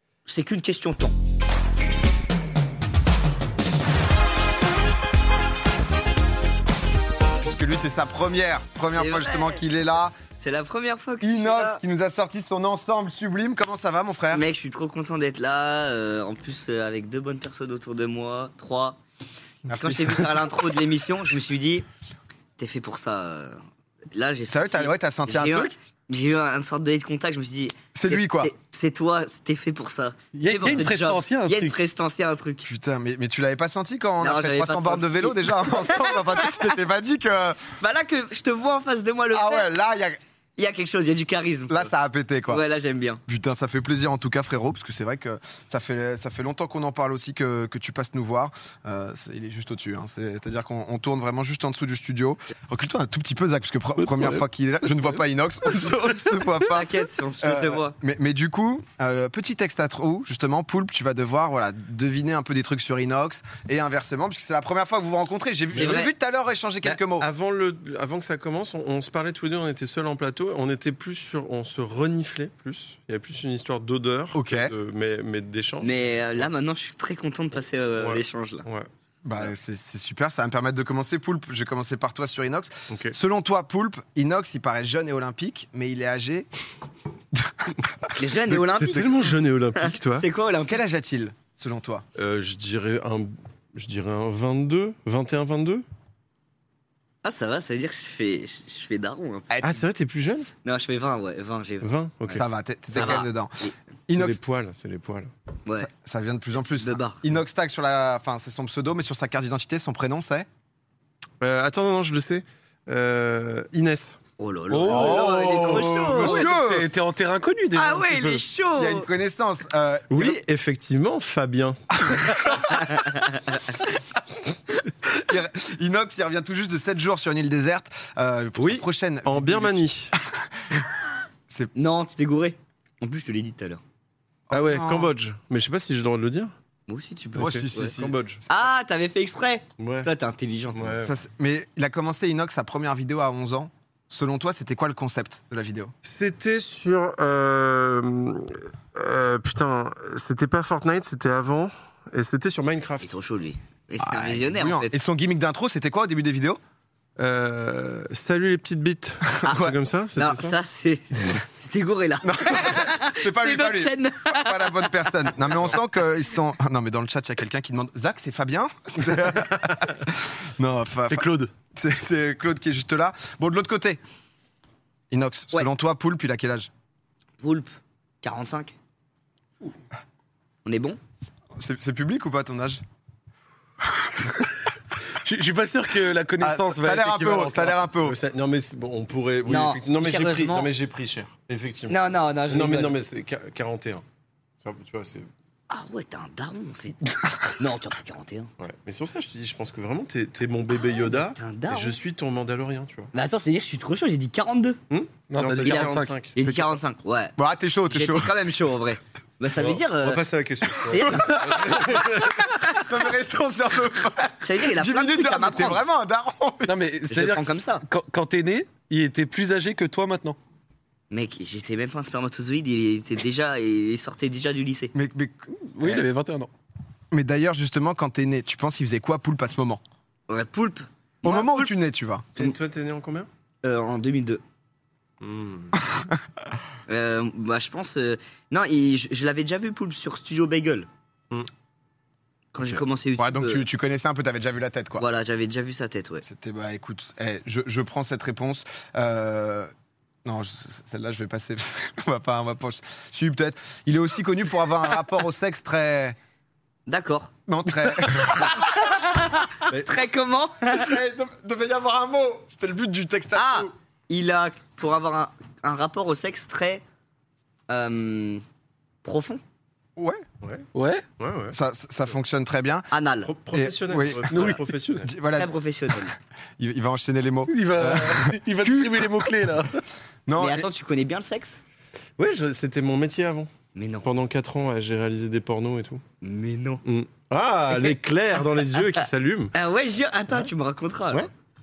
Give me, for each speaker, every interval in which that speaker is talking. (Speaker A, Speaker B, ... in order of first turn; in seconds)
Speaker A: 0.2-1.1, 8.9-9.6, 10.3-11.8, 14.3-19.0, 19.7-21.9, 22.6-23.6, 24.1-32.7, 34.2-36.8, 37.8-39.7, 40.6-41.9, 42.5-43.2, 56.7-58.0, 65.7-66.1, 75.8-78.7, 88.2-89.1, 89.8-90.8, 97.2-99.5, 100.6-103.7, 106.8-107.2, 114.4-116.5, 117.7-119.1, 122.8-123.9, 131.7-133.8, 136.9-137.9, 138.5-141.0, 153.0-154.9, 159.4-165.6, 177.4-178.7, 180.6-181.0, 189.4-190.7, 191.9-192.9, 195.7-198.5, 201.2-202.0, 203.1-204.8, 205.6-207.3, 207.9-210.2, 210.9-212.8, 214.4-215.8, 217.1-217.8, 221.1-224.9, 230.3-231.7, 233.6-234.4, 236.9-240.9, 242.5-243.6, 245.0-246.2, 256.9-257.3, 258.0-260.9, 263.3-266.8, 267.7-268.4, 269.0-269.4, 272.9-273.3, 275.4-276.1, 280.4-281.6, 283.7-284.1, 286.2-286.8, 287.7-287.9, 288.8-291.3
Speaker B: 7.4-10.2, 11.2-14.4, 19.6-20.3, 24.5-25.7, 27.9-28.5, 32.6-37.7, 39.3-40.2, 41.7-42.6, 43.2-67.3, 74.3-74.7, 79.2-86.5, 87.3-88.1, 90.7-92.0, 99.5-99.8, 102.3-104.4, 105.8-110.5, 114.8-116.9, 118.8-120.4, 122.1-122.3, 125.1-130.5, 134.5-135.1, 137.4-138.4, 141.0-145.9, 154.0-156.6, 159.4-159.7, 162.2-174.0, 175.1-176.7, 181.6-182.8, 183.8-184.3, 186.4-188.2, 207.4-208.4, 212.7-216.8, 224.9-226.1, 227.1-229.8, 231.2-232.3, 235.8-236.2, 242.6-245.1, 246.2-249.7, 250.2-256.1, 257.5-258.7, 260.7-263.7, 270.0-270.2, 271.5-272.9, 273.5-276.0, 276.6-279.3, 280.3-280.7
Speaker C: 30.3-31.8, 114.7-118.4, 171.1-171.5, 185.1-187.8, 205.3-206.1, 216.7-220.4, 225.8-226.5, 270.7-271.0, 274.3-274.6, 277.5-279.8
Speaker D: 65.7-66.0, 66.9-76.5, 78.0-79.5, 82.9-83.1, 88.5-90.2, 92.2-95.8, 99.6-100.5, 101.8-102.4, 104.1-105.3, 111.4-114.2, 120.1-122.8, 128.6-130.2, 134.5-136.5, 137.3-138.4, 139.8-140.1, 140.7-141.2, 146.0-153.1, 157.2-160.5, 188.0-194.0, 194.6-195.3, 198.6-203.1, 204.9-206.3, 209.5-212.4, 232.3-233.3, 235.2-235.7, 259.7-260.0, 270.4-271.6, 273.2-275.1, 282.2-283.5, 284.0-286.0, 286.8-289.5